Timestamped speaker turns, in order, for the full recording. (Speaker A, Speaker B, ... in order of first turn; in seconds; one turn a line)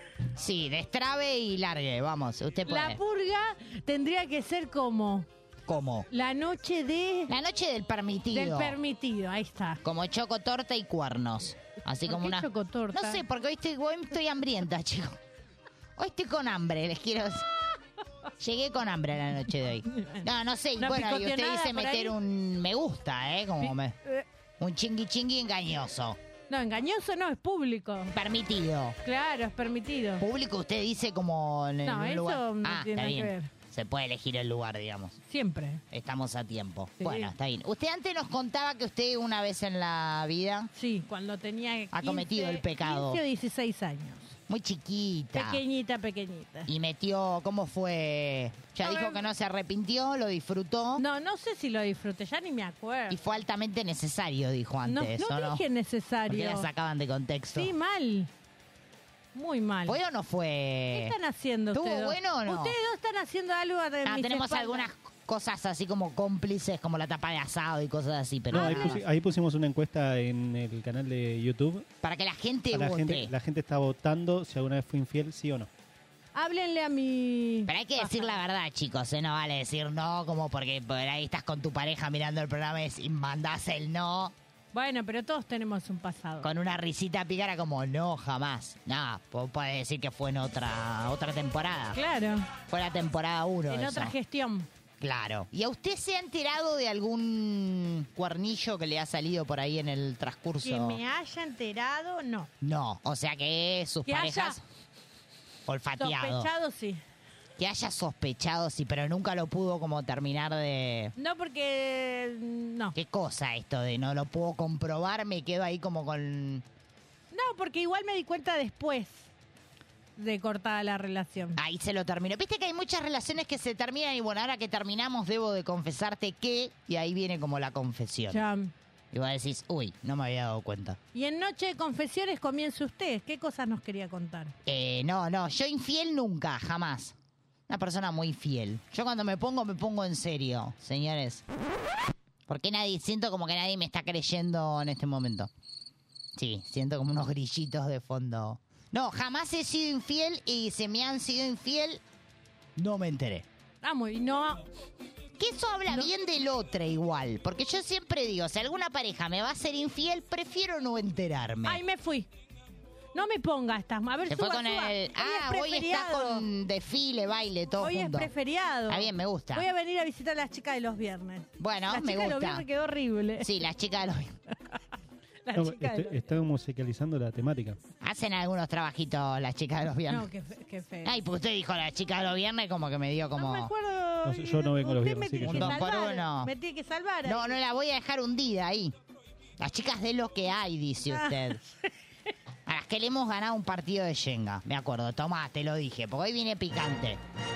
Speaker A: 0.3-3.0
Speaker B: 2.7-5.3
Speaker A: 5.7-6.1
Speaker B: 6.1-7.3
Speaker A: 7.3-8.8
Speaker B: 8.3-9.8
Speaker A: 9.8-15.2
Speaker B: 12.1-13.2
Speaker A: 16.0-17.5
Speaker A: 18.4-24.0
Speaker B: 19.9-20.3
Speaker B: 20.8-22.1
Speaker B: 23.6-24.2
Speaker A: 24.6-26.2
Speaker B: 26.5-28.1
Speaker A: 28.1-29.0
Speaker B: 29.0-30.2
Speaker A: 30.2-35.2
Speaker B: 31.8-33.5
Speaker B: 35.3-35.8
Speaker A: 35.9-40.7
Speaker B: 37.0-37.3
Speaker B: 40.7-44.4
Speaker A: 41.9-43.2
Speaker A: 44.5-45.6
Speaker B: 45.3-46.7
Speaker A: 46.7-51.0
Speaker B: 48.8-49.2
Speaker B: 51.0-53.3
Speaker A: 53.1-55.6
Speaker B: 54.8-56.7
Speaker A: 56.3-57.7
Speaker B: 57.5-58.3
Speaker B: 59.4-60.0
Speaker A: 59.9-61.2
Speaker B: 60.9-64.9
Speaker A: 61.7-62.8
Speaker A: 64.0-69.0
Speaker B: 68.5-69.0
Speaker C: 68.5-71.9
Speaker A: 72.0-73.3
Speaker C: 72.7-75.7
Speaker B: 76.3-78.3
Speaker A: 77.7-84.3
Speaker B: 84.7-86.5
Speaker A: 86.4-92.0
Speaker B: 91.9-92.5
Speaker A: 92.7-94.1
Speaker B: 93.7-94.7
Speaker A: 95.0-101.0
Speaker B: 100.6-102.5
Speaker A: 102.6-104.6
Speaker B: 104.1-104.6
Speaker A: 105.7-106.5
Speaker B: 106.0-107.0
Speaker A: 107.6-111.1
Speaker B: 111.2-113.0
Speaker A: 112.9-116.7
Speaker B: 117.3-119.3
Speaker B: 120.2-121.6
Speaker A: 121.6-128.4
Speaker B: 128.3-128.7
Speaker A: 129.1-131.0
Speaker B: 131.1-134.6
Speaker A: 134.7-137.2
Speaker A: 137.7-141.4
Speaker A: 142.5-145.5
Speaker A: 146.3-152.0
Speaker A: 152.8-153.5
Speaker B: 153.8-154.7
Speaker A: 155.4-161.8
Speaker B: 161.7-162.3
Speaker B: 163.2-166.5
Speaker A: 164.2-168.3
Speaker B: 167.8-173.5
Speaker A: 168.9-169.7
Speaker A: 171.6-172.7
Speaker A: 173.4-174.4
Speaker B: 175.4-176.3
Speaker C: 175.6-177.8
Speaker A: 178.0-180.3
Speaker B: 180.1-181.2
Speaker A: 181.0-183.7
Speaker B: 183.4-187.6
Speaker C: 184.2-185.8
Speaker A: 185.4-186.5
Speaker A: 187.2-188.9
Speaker A: 189.6-191.6
Speaker B: 191.1-191.6
Speaker A: 192.7-197.2